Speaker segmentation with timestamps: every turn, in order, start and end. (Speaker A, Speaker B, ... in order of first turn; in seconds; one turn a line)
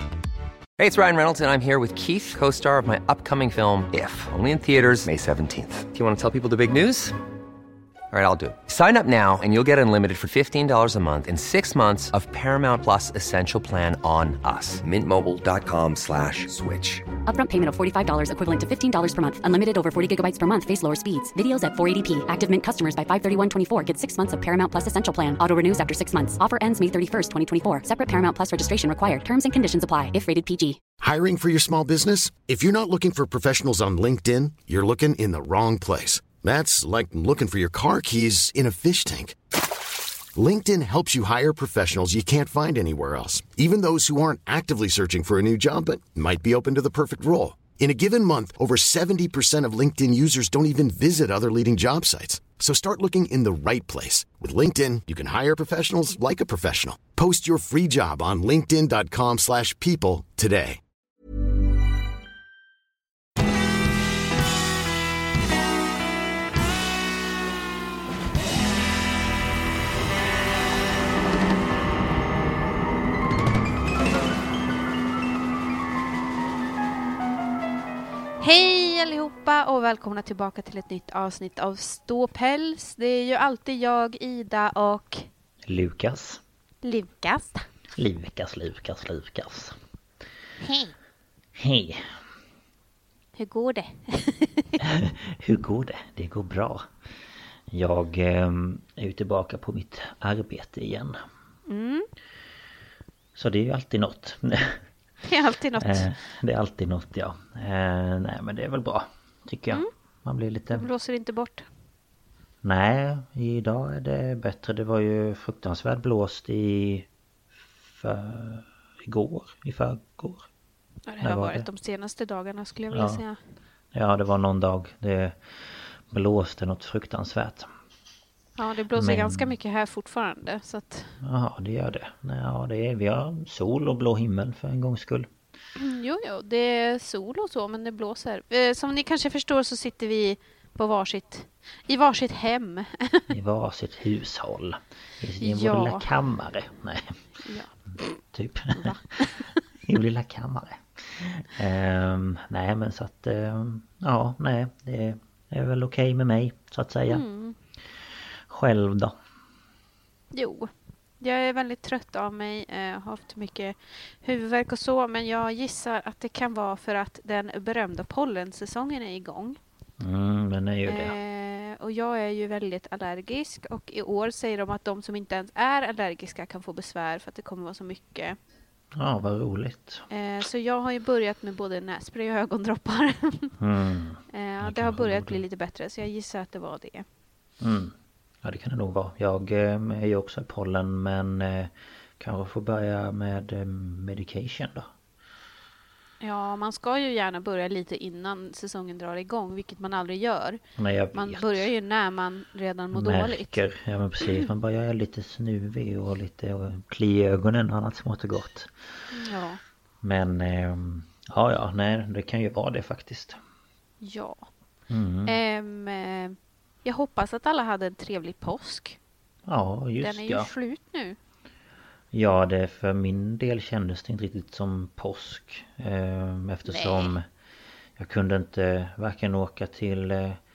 Speaker A: 0.8-7.2
Speaker A: 8.1-17.1
Speaker B: 17.2-30.8
Speaker C: 31.0-39.4
Speaker C: 40.4-60.8
Speaker D: 78.4-85.3
Speaker E: 85.7-86.4
Speaker D: 86.8-87.7
Speaker E: 87.9-89.8
Speaker D: 90.6-90.9
Speaker E: 91.5-92.2
Speaker D: 93.4-94.8
Speaker E: 94.8-96.9
Speaker E: 97.7-101.2
Speaker D: 101.7-102.1
Speaker E: 103.3-104.8
Speaker D: 105.2-106.1
Speaker E: 105.8-110.9
Speaker D: 110.7-111.7
Speaker E: 112.6-117.1
Speaker E: 117.8-120.5
Speaker D: 121.1-123.4
Speaker E: 121.2-121.7
Speaker E: 122.9-123.2
Speaker E: 123.9-127.7
Speaker D: 128.6-131.2
Speaker E: 128.9-129.5
Speaker E: 131.2-135.3
Speaker D: 135.8-143.3
Speaker E: 143.3-147.2
Speaker D: 145.4-146.1
Speaker D: 147.4-148.2
Speaker E: 148.3-157.2
Speaker D: 148.7-149.5
Speaker D: 157.1-157.6
Speaker E: 158.5-159.2
Speaker D: 160.3-169.6
Speaker E: 170.0-171.2
Speaker D: 170.8-178.4
Speaker E: 178.9-180.1
Speaker D: 180.1-183.5
Speaker E: 183.6-185.4
Speaker D: 184.3-187.1
Speaker E: 187.6-194.9
Speaker D: 196.2-200.6
Speaker E: 200.8-201.7
Speaker D: 201.1-203.6
Speaker E: 202.9-208.7
Speaker D: 209.1-209.6
Speaker E: 210.0-213.4
Speaker D: 214.0-214.4
Speaker E: 214.9-215.4
Speaker D: 215.2-219.0
Speaker E: 219.4-220.5
Speaker D: 220.0-221.2
Speaker E: 222.1-227.2
Speaker D: 226.6-227.1
Speaker E: 228.0-230.4